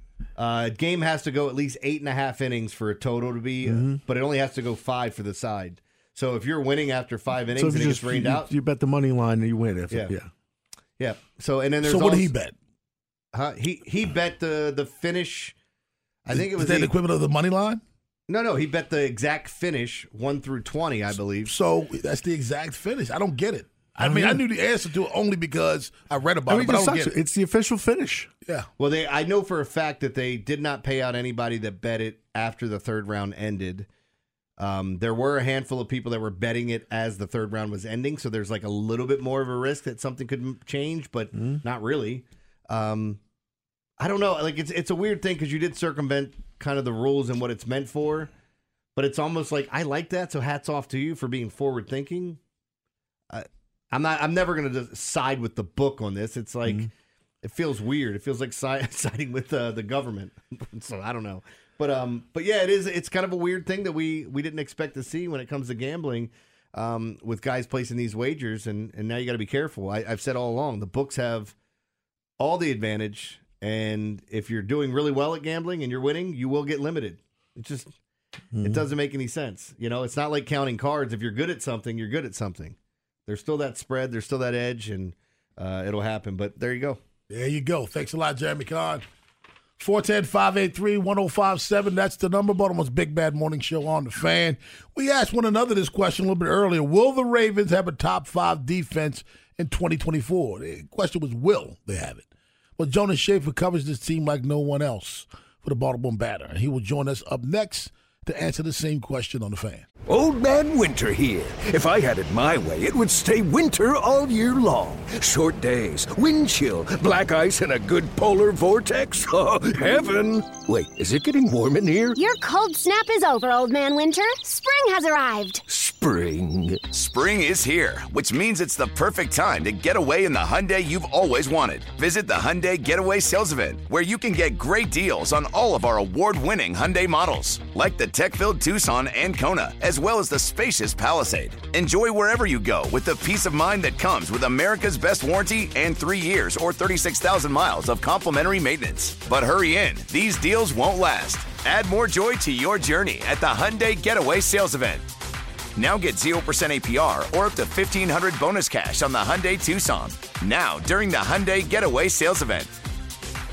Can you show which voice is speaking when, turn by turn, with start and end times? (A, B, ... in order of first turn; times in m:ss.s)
0:00.4-0:08.5 A
0:03.6-0:04.0 B
0:07.6-0:10.3 B
0:11.0-0:12.3 A
0:11.8-0:12.5 C
0:13.3-0:15.5 A
0:16.2-0:16.9 A
0:16.3-0:17.8 C
0:18.3-0:21.5 A
0:21.5-0:27.1 C
0:24.0-0:24.4 B
0:26.5-0:28.3 B
0:28.8-0:33.9 A
0:34.6-0:43.2 A
0:41.3-0:41.6 B
0:44.0-0:48.3 A
0:49.0-0:52.4 A
0:53.3-0:56.9 A
0:57.4-1:11.5 A
1:12.4-1:17.9 A
1:18.5-1:18.8 B
1:18.6-1:22.8 A
1:23.3-1:27.0 A
1:27.3-1:29.0 C
1:29.8-1:42.2 C
1:42.8-1:49.8 C
1:50.0-2:02.2 D
2:02.2-2:05.6 E
2:05.6-2:06.9 D
2:07.0-2:35.1 F
2:35.8-2:42.8 F